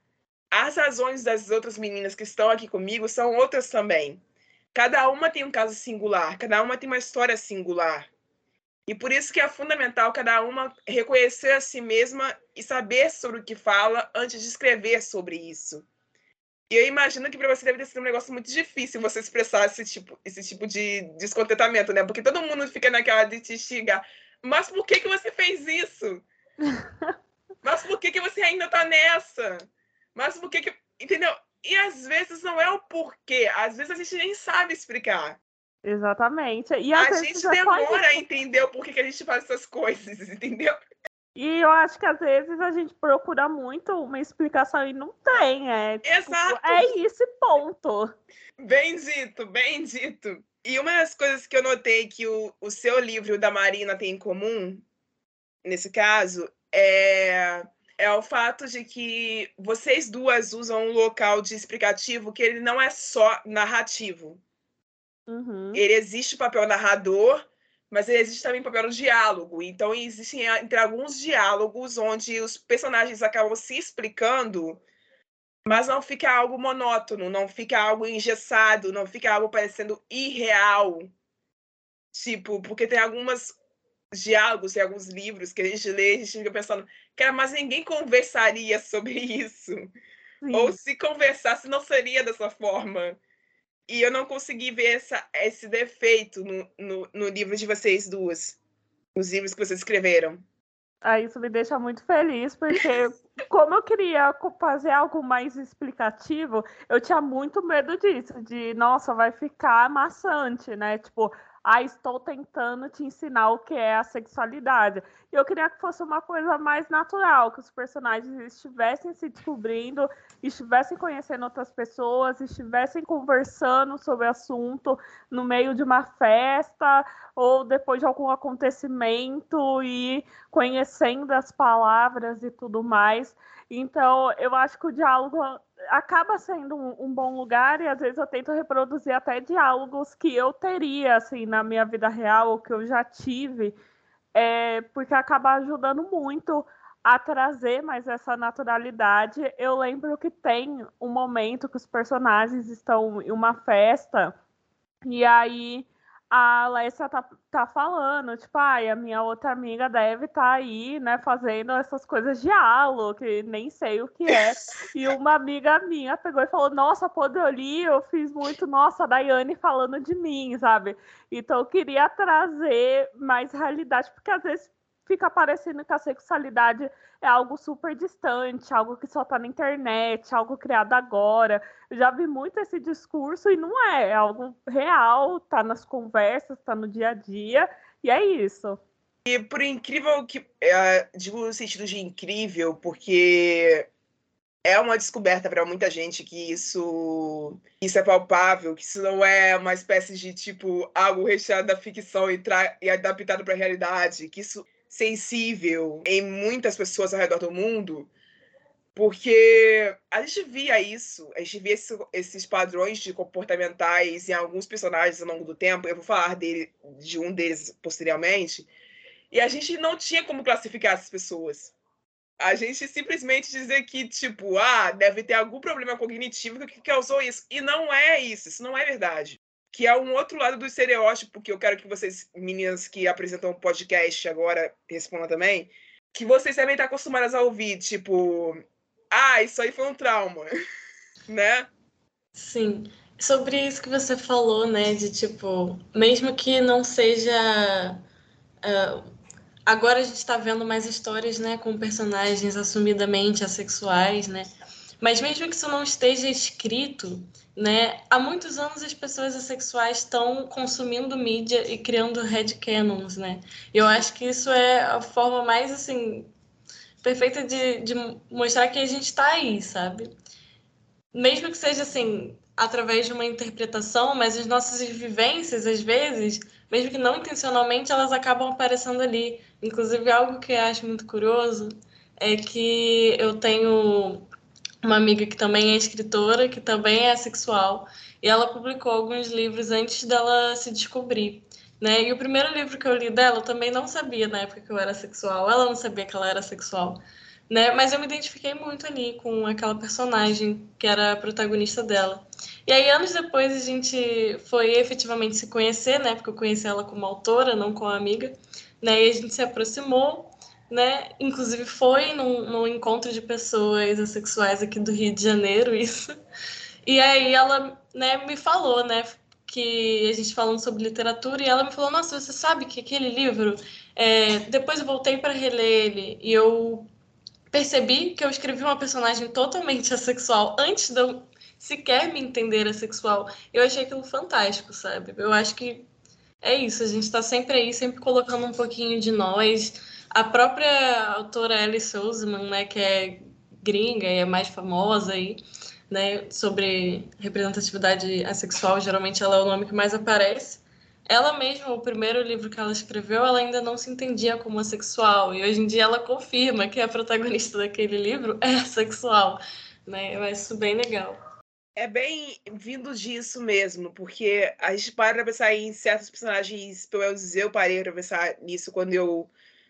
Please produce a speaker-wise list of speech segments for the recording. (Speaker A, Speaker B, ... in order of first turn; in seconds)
Speaker A: 0.5-4.2, 4.7-8.1, 8.9-15.8, 16.7-26.2, 27.6-29.6, 30.1-35.4, 36.9-40.7, 46.0-46.9, 48.6-54.8, 55.6-64.4, 65.7-74.8, 75.7-81.1, 82.1-83.5, 84.1-89.9, 90.5-93.2, 93.9-98.6, 99.1-100.4, 189.2-193.9, 194.6-208.1, 208.9-218.7, 219.3-221.7, 222.4-238.6, 239.1-240.5, 241.3-241.7, 361.8-369.3
Speaker B: 26.8-27.1, 35.8-38.2, 41.4-48.1, 65.3-65.8, 90.4-90.8, 101.0-143.7, 144.3-154.3, 155.0-188.8
Speaker C: 242.3-248.0, 248.6-249.0, 249.7-254.5, 255.0-266.3, 267.0-270.1, 271.1-284.3, 284.8-316.1, 316.9-326.9, 327.5-335.9, 336.4-361.2